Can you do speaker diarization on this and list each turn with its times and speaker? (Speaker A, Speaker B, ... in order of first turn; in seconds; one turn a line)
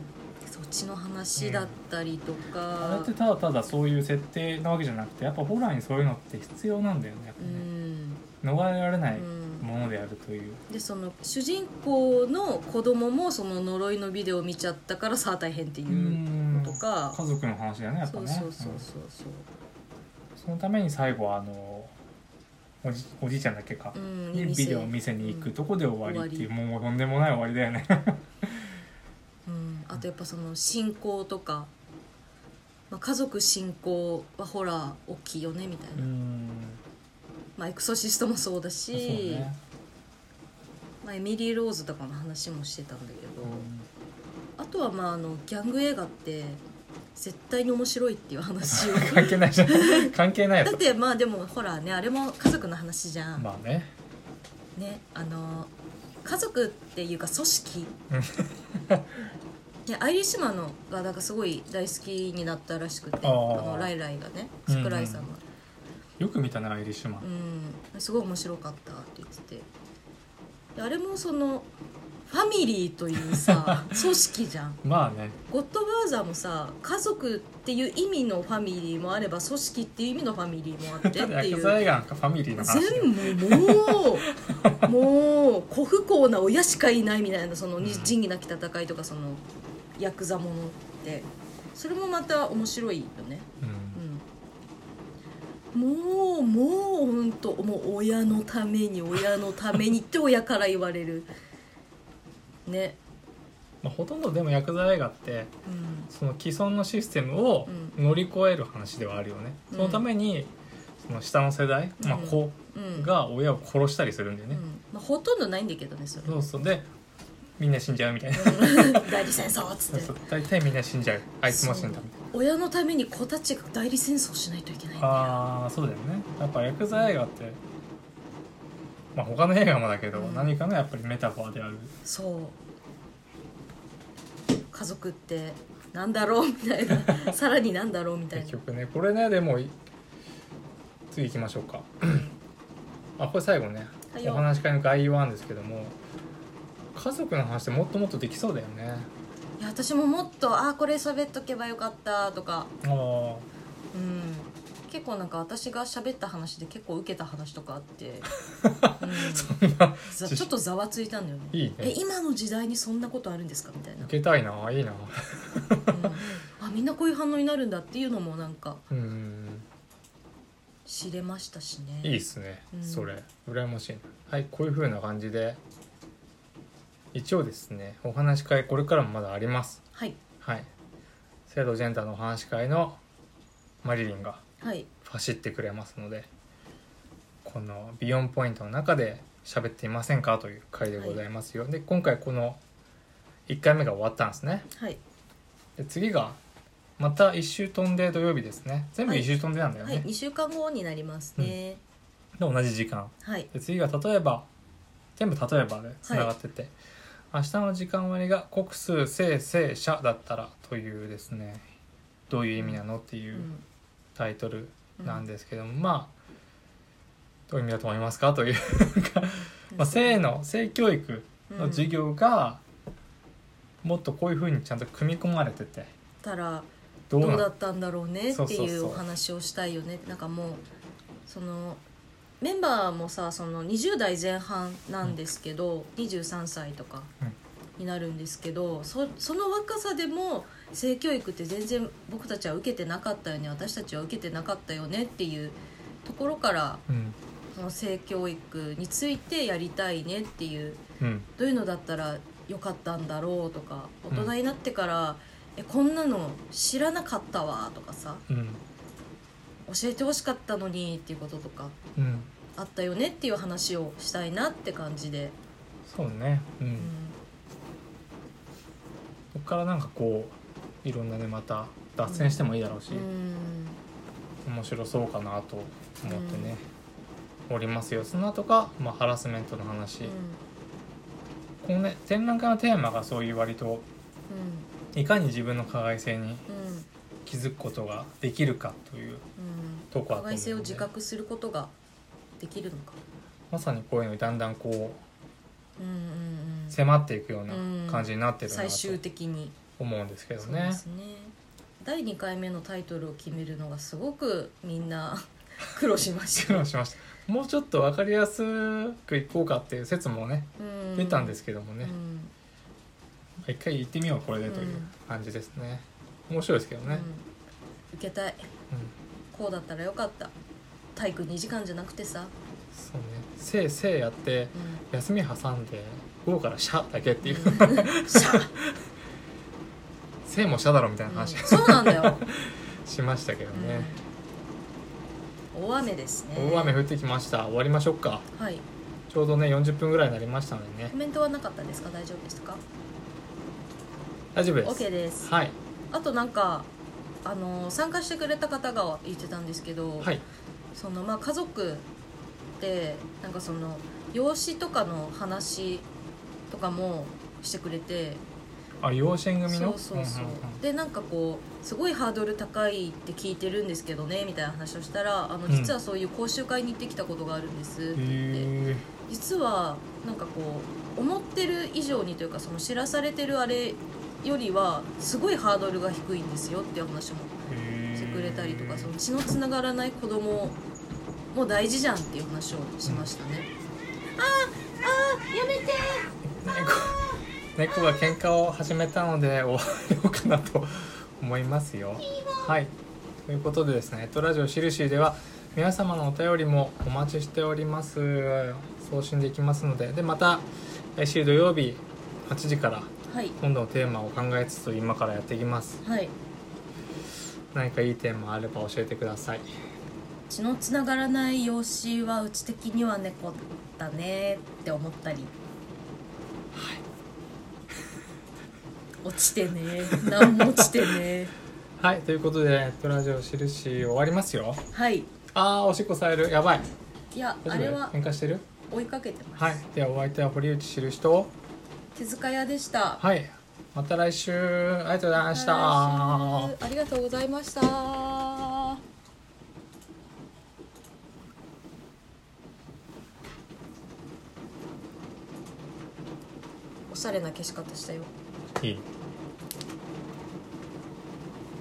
Speaker A: 0.4-3.1
Speaker B: 1.4-1.7
Speaker B: 2.8-7.7
Speaker A: 7.4-8.2
Speaker B: 8.4-10.6
Speaker A: 9.2-9.7
Speaker A: 10.7-17.2
Speaker B: 15.9-18.9
Speaker A: 18.1-19.5
Speaker B: 20.4-21.9
Speaker B: 22.8-28.7
Speaker A: 23.9-25.5
Speaker A: 26.0-26.5
Speaker A: 29.5-31.7
Speaker A: 32.9-36.1
Speaker B: 36.0-36.8
Speaker A: 37.6-39.5
Speaker B: 38.9-39.6
Speaker A: 41.0-43.7
Speaker B: 43.4-43.9
Speaker A: 44.6-46.6
Speaker A: 47.1-53.5
Speaker B: 48.7-50.8
Speaker B: 53.4-53.9
Speaker A: 54.8-55.7
Speaker A: 56.2-57.9
Speaker B: 58.1-59.1
Speaker A: 59.9-65.4
Speaker B: 63.2-63.9
Speaker B: 64.7-65.3
Speaker B: 66.2-67.3
Speaker A: 67.2-69.7
Speaker A: 70.8-71.7
Speaker A: 72.3-74.8
Speaker B: 73.3-74.0
Speaker B: 74.8-75.4
Speaker A: 75.5-81.8
Speaker B: 81.0-84.9
Speaker A: 82.6-84.3
Speaker A: 84.8-89.4
Speaker B: 87.8-88.2
Speaker A: 90.0-94.3
Speaker B: 93.6-94.0
Speaker A: 95.7-101.3
Speaker A: 102.7-103.0
Speaker B: 103.8-105.5
Speaker A: 105.7-106.1
Speaker B: 106.1-114.6
Speaker A: 107.7-108.0
Speaker A: 109.7-110.1
Speaker A: 112.0-113.1
Speaker A: 114.5-116.5
Speaker B: 116.2-116.9
Speaker B: 117.6-119.2
Speaker A: 118.4-120.2
Speaker B: 119.9-122.2
Speaker A: 121.5-125.4
Speaker B: 125.0-127.6
Speaker B: 129.2-131.9
Speaker A: 130.1-130.6
Speaker A: 132.0-132.6
Speaker A: 134.7-138.6
Speaker B: 138.3-139.8
Speaker B: 141.1-142.3
Speaker A: 142.0-142.3
Speaker B: 143.2-146.0
Speaker A: 144.1-144.5
Speaker B: 146.9-149.1
Speaker A: 149.6-152.7
Speaker B: 152.8-153.5
Speaker A: 153.9-158.3
Speaker B: 158.6-160.5
Speaker A: 159.0-164.1
Speaker B: 161.5-162.0
Speaker B: 164.0-166.3
Speaker A: 165.9-168.8
Speaker B: 168.9-169.7
Speaker A: 170.8-173.1
Speaker B: 172.0-175.6
Speaker B: 177.1-179.8
Speaker A: 179.9-180.2
Speaker B: 180.4-180.7
Speaker B: 181.5-183.0
Speaker B: 183.8-184.4
Speaker A: 184.6-184.9
Speaker B: 185.0-186.3
Speaker B: 187.4-192.6
Speaker B: 193.5-194.7
Speaker A: 194.7-195.0
Speaker B: 195.8-196.4
Speaker B: 197.0-200.1
Speaker A: 199.8-201.8
Speaker B: 202.4-204.5
Speaker A: 203.2-203.5
Speaker B: 205.2-206.8
Speaker A: 206.0-206.3
Speaker B: 207.3-211.7
Speaker B: 212.3-213.5
Speaker A: 213.3-213.6
Speaker B: 214.2-216.1
Speaker A: 215.0-215.3
Speaker B: 217.5-222.6
Speaker A: 219.7-220.2
Speaker A: 221.5-221.9
Speaker B: 223.8-225.9
Speaker A: 226.2-230.6
Speaker B: 227.1-227.5
Speaker B: 228.3-229.0
Speaker A: 231.3-231.8
Speaker A: 232.4-237.1
Speaker A: 237.8-246.8
Speaker B: 246.9-247.2
Speaker A: 247.5-250.8
Speaker B: 251.0-251.3
Speaker A: 251.4-258.2
Speaker B: 258.3-258.6
Speaker A: 259.7-261.8
Speaker B: 262.0-262.3
Speaker A: 262.6-265.4
Speaker B: 265.9-266.9
Speaker A: 266.8-267.2
Speaker B: 269.3-273.1
Speaker A: 272.1-273.8
Speaker B: 274.4-276.7
Speaker A: 276.0-276.5
Speaker B: 277.5-280.1
Speaker A: 280.0-280.4
Speaker B: 281.6-283.9
Speaker A: 284.3-284.7
Speaker B: 284.9-286.5
Speaker A: 286.5-286.9
Speaker B: 287.3-289.3
Speaker A: 289.4-291.7
Speaker B: 289.9-290.9
Speaker A: 292.4-293.0
Speaker B: 293.5-295.0
Speaker A: 295.8-296.8
Speaker B: 296.7-299.0
Speaker A: 297.5-299.6
Speaker B: 299.8-300.8
Speaker A: 300.4-306.7
Speaker B: 306.3-312.0
Speaker A: 310.6-312.3
Speaker B: 313.4-317.1
Speaker A: 314.5-314.9
Speaker A: 316.9-317.3
Speaker A: 317.9-318.5
Speaker A: 319.3-320.3
Speaker A: 320.9-322.3
Speaker B: 322.7-328.8
Speaker A: 324.5-324.8
Speaker A: 327.2-328.5
Speaker B: 330.2-333.9
Speaker A: 331.1-332.2
Speaker A: 333.5-334.0
Speaker A: 335.5-336.8
Speaker B: 336.4-338.3
Speaker A: 338.3-338.7
Speaker B: 339.1-340.9
Speaker A: 340.9-342.6
Speaker B: 344.4-345.6
Speaker A: 344.6-345.3
Speaker A: 345.9-346.7
Speaker A: 347.2-350.1
Speaker B: 350.0-350.2
Speaker A: 350.7-351.9
Speaker A: 352.6-355.9
Speaker A: 356.5-358.2
Speaker B: 358.8-360.6
Speaker A: 359.5-368.5
Speaker B: 365.5-365.8
Speaker B: 367.9-368.9
Speaker A: 369.1-377.4
Speaker B: 377.5-378.9
Speaker A: 377.9-380.6
Speaker A: 381.3-383.5
Speaker B: 382.9-383.1
Speaker A: 384.1-386.1
Speaker B: 386.2-392.7
Speaker A: 392.0-392.5
Speaker B: 393.3-405.8
Speaker A: 403.1-403.4
Speaker A: 405.8-406.1
Speaker B: 407.5-409.5
Speaker A: 410.3-415.3
Speaker B: 416.5-416.8
Speaker A: 419.0-421.3
Speaker B: 419.9-420.8
Speaker B: 421.8-424.6
Speaker A: 424.7-425.1
Speaker B: 425.3-426.7
Speaker A: 427.1-427.9
Speaker B: 427.4-428.5
Speaker A: 428.7-429.6
Speaker B: 429.4-431.3
Speaker A: 431.9-433.0
Speaker B: 433.0-436.5
Speaker A: 435.1-438.8
Speaker A: 446.9-448.1
Speaker B: 448.6-448.9